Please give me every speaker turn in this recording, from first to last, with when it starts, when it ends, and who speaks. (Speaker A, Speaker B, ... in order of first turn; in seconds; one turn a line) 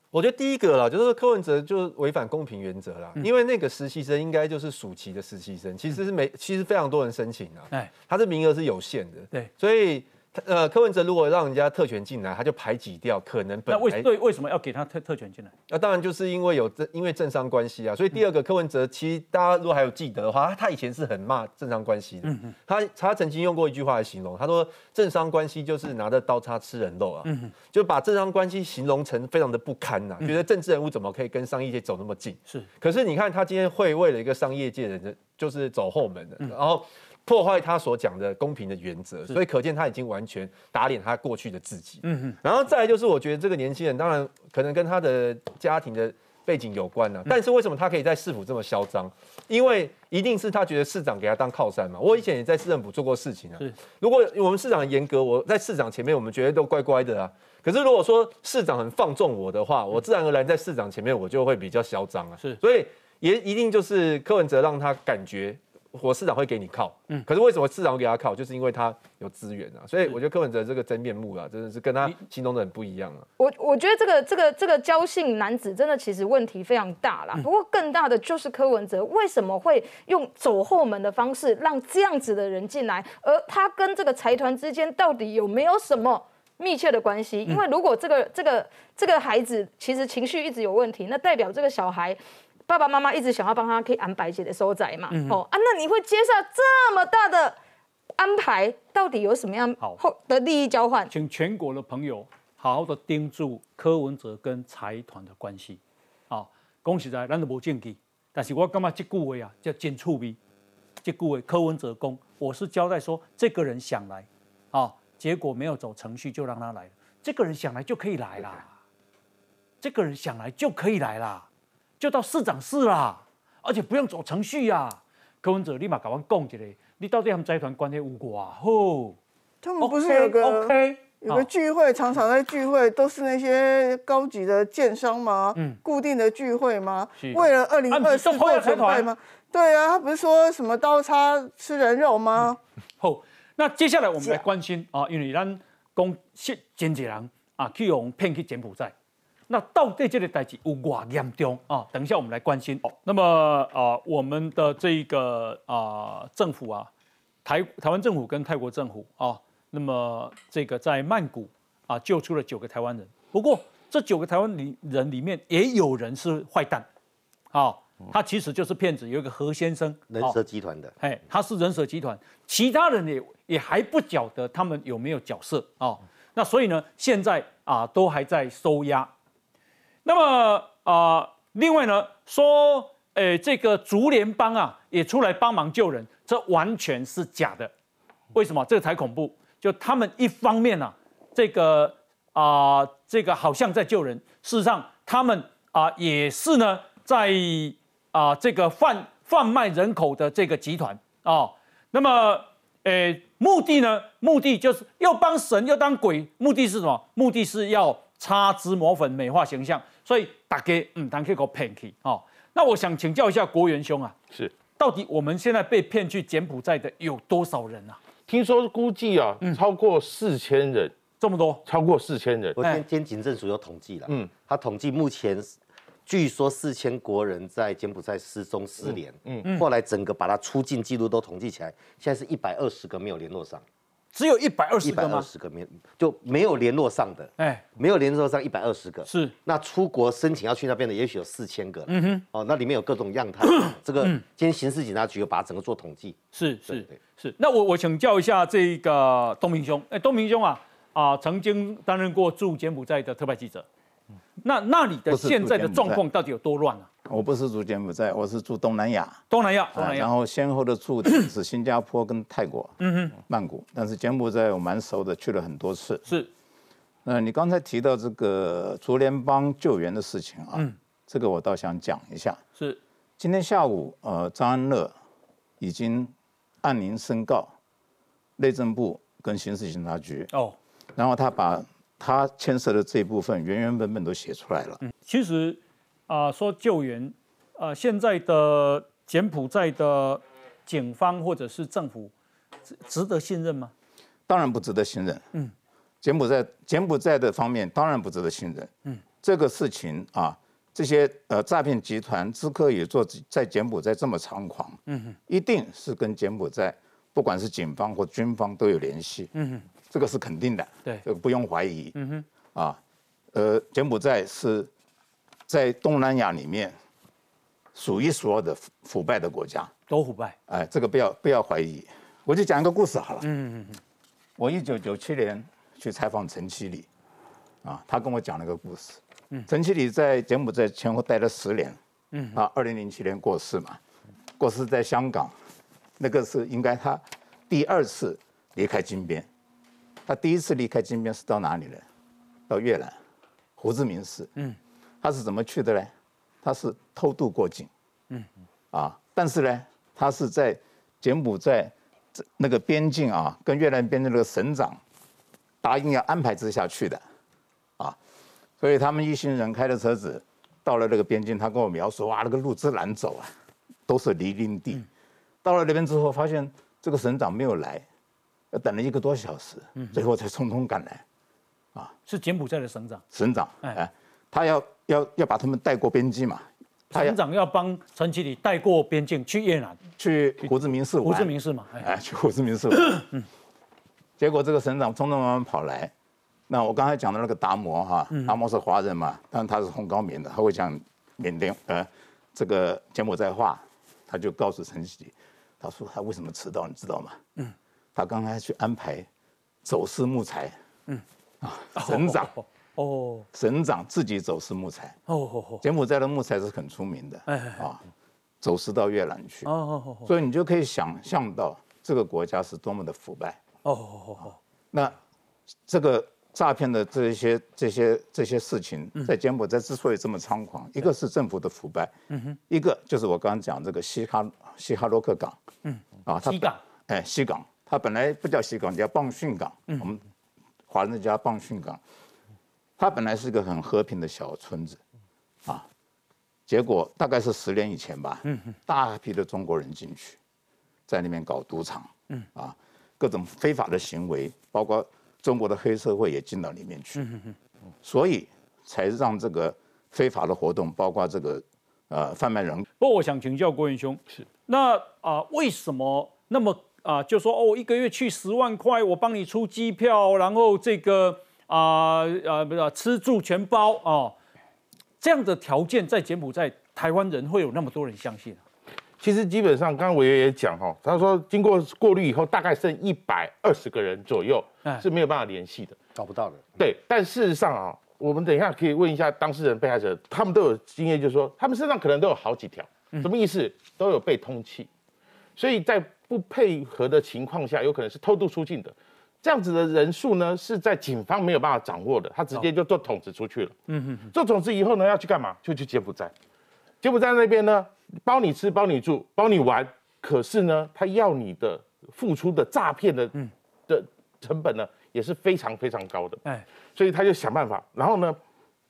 Speaker A: 0.1-14.1
Speaker B: 13.7-15.5
Speaker A: 15.7-73.3
Speaker B: 22.2-22.6
Speaker B: 27.2-27.5
Speaker B: 42.0-42.4
Speaker C: 73.4-97.6
Speaker B: 95.1-95.4
Speaker C: 98.2-101.1
Speaker B: 101.1-105.8
Speaker B: 106.3-110.4
Speaker B: 111.0-118.7
Speaker B: 119.8-121.5
Speaker B: 122.0-129.2
Speaker D: 129.6-142.6
Speaker B: 129.8-131.5
Speaker B: 137.2-139.1
Speaker B: 143.0-148.9
Speaker B: 149.5-156.9
Speaker B: 157.4-166.9
Speaker B: 167.5-170.4
Speaker E: 170.1-170.9
Speaker B: 171.0-179.1
Speaker B: 180.1-187.7
Speaker B: 188.3-214.2
Speaker B: 214.8-218.0
Speaker F: 218.3-220.9
Speaker B: 221.2-221.6
Speaker F: 221.7-222.6
Speaker E: 222.6-225.6
Speaker E: 226.1-233.6
Speaker F: 228.8-229.5
Speaker B: 234.1-235.3
Speaker E: 234.8-247.0
Speaker B: 237.4-237.7
Speaker B: 239.1-239.3
Speaker B: 241.9-242.2
Speaker B: 243.5-244.2
Speaker B: 246.3-253.7
Speaker B: 254.4-256.9
Speaker G: 255.1-256.0
Speaker G: 257.1-259.2
Speaker B: 259.3-260.1
Speaker G: 259.7-266.1
Speaker B: 262.8-263.1
Speaker G: 267.1-272.4
Speaker G: 273.2-274.9
Speaker G: 275.6-277.5
Speaker G: 278.4-280.3
Speaker G: 281.0-284.8
Speaker B: 284.8-292.1
Speaker B: 292.7-293.7
Speaker G: 294.3-295.2
Speaker G: 296.0-309.3
Speaker B: 304.9-305.2
Speaker B: 309.4-309.6
Speaker G: 309.9-311.9
Speaker B: 311.9-312.2
Speaker G: 312.5-312.8
Speaker G: 313.3-314.7
Speaker G: 315.5-316.7
Speaker G: 317.8-319.7
Speaker B: 319.9-320.4
Speaker G: 320.5-323.3
Speaker B: 323.2-323.8
Speaker G: 324.4-326.9
Speaker G: 327.6-331.8
Speaker B: 332.1-332.4
Speaker G: 332.3-333.8
Speaker G: 334.4-335.4
Speaker G: 336.0-339.3
Speaker G: 340.1-341.9
Speaker G: 342.5-343.0
Speaker G: 343.6-344.3
Speaker G: 345.0-345.9
Speaker G: 346.4-347.7
Speaker G: 348.7-354.8
Speaker G: 355.6-357.0
Speaker G: 358.6-363.3
Speaker G: 363.9-364.9
Speaker G: 365.4-367.9
Speaker G: 368.5-371.0
Speaker B: 369.8-370.0
Speaker B: 372.1-373.0
Speaker G: 373.1-377.2
Speaker B: 376.9-379.8
Speaker G: 380.0-383.1
Speaker B: 381.0-381.9
Speaker B: 382.7-383.2
Speaker G: 384.2-385.9
Speaker G: 386.5-397.2
Speaker G: 397.9-399.1
Speaker G: 399.6-400.6
Speaker G: 401.4-402.3
Speaker B: 401.8-403.3
Speaker G: 403.3-405.0
Speaker B: 405.1-405.6
Speaker G: 405.6-407.8
Speaker B: 407.3-407.7
Speaker G: 408.4-409.5
Speaker B: 409.4-410.1
Speaker G: 410.1-413.4
Speaker B: 413.6-414.4
Speaker G: 415.7-421.9
Speaker B: 422.1-422.4
Speaker G: 422.5-425.4
Speaker B: 425.6-426.6
Speaker G: 426.1-430.0
Speaker G: 430.7-431.8
Speaker G: 432.8-434.8
Speaker G: 436.5-440.2
Speaker G: 440.9-447.0
Speaker B: 447.0-447.4
Speaker G: 447.8-452.6
Speaker B: 452.8-464.1
Speaker B: 465.0-468.4
Speaker F: 469.0-475.8
Speaker E: 476.0-476.5
Speaker F: 476.6-484.7
Speaker F: 485.4-493.6
Speaker B: 493.7-494.1
Speaker F: 494.1-496.1
Speaker F: 496.8-503.1
Speaker F: 503.7-506.2
Speaker F: 506.8-508.2